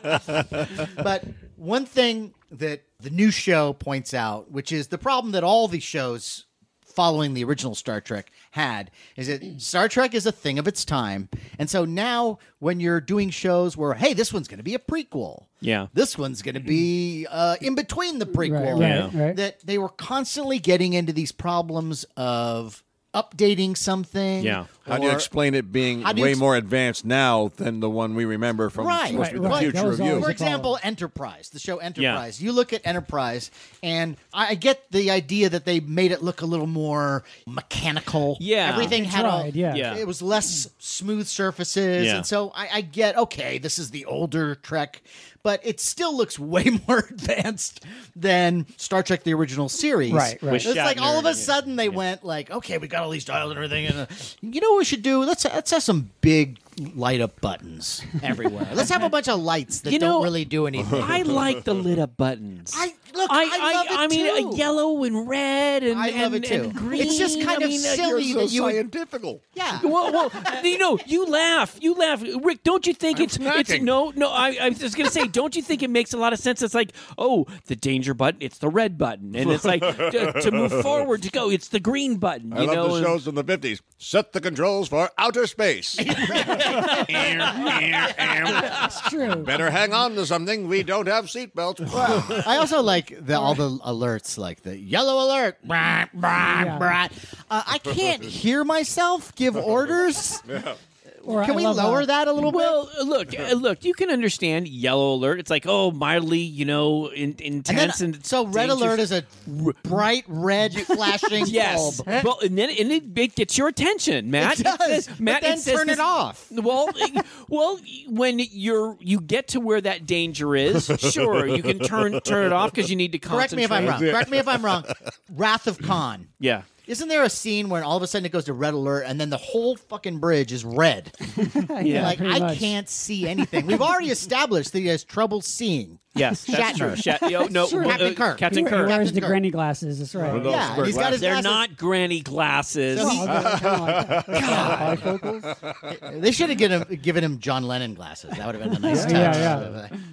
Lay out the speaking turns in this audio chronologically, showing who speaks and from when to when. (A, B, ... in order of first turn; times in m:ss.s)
0:00.9-0:25.3 A
0:15.6-0:15.9 B
0:18.4-0:19.4 C
0:18.8-0:19.1 B
0:24.4-0:24.6 B
0:24.8-0:30.4 D
0:26.0-0:26.4 A
0:28.7-1:01.3 A
0:29.1-0:30.8 C
0:38.4-0:39.1 B
0:38.7-0:39.9 C
0:39.6-0:40.1 B
0:42.0-0:42.3 B
0:50.1-0:50.7 C
0:58.6-0:59.1 B
0:59.8-1:08.1 B
1:00.8-1:01.7 D
1:02.7-1:04.7 A
1:05.9-1:08.8 A
1:07.9-1:09.4 D
1:09.5-1:09.9 A
1:09.7-1:23.2 B
1:10.3-1:10.7 D
1:13.1-1:14.0 D
1:19.3-1:21.1 D
1:22.5-1:32.6 D
1:26.0-1:28.5 A
1:28.9-1:29.6 C
1:31.9-1:40.4 A
1:36.5-1:36.9 C
1:37.8-1:38.3 D
1:39.6-1:40.8 D
1:41.2-1:42.8 A
1:41.2-1:42.2 C
1:42.4-1:50.1 B
1:47.7-1:52.2 A
1:50.6-2:04.2 B
1:54.4-1:56.5 A
2:00.7-2:02.7 D
2:03.3-2:11.2 A
2:03.8-2:05.0 D
2:06.4-2:06.7 B
2:11.4-2:14.0 C
2:11.8-2:19.5 A
2:11.8-2:12.2 B
2:16.1-2:19.2 B
2:16.3-2:20.9 C
2:20.2-2:21.7 A
2:20.3-2:21.1 D
2:20.5-2:23.2 B
2:22.9-2:25.2 A
2:23.0-2:25.5 C
2:23.1-2:25.7 D
2:25.9-2:29.9 A
2:28.8-2:29.8 C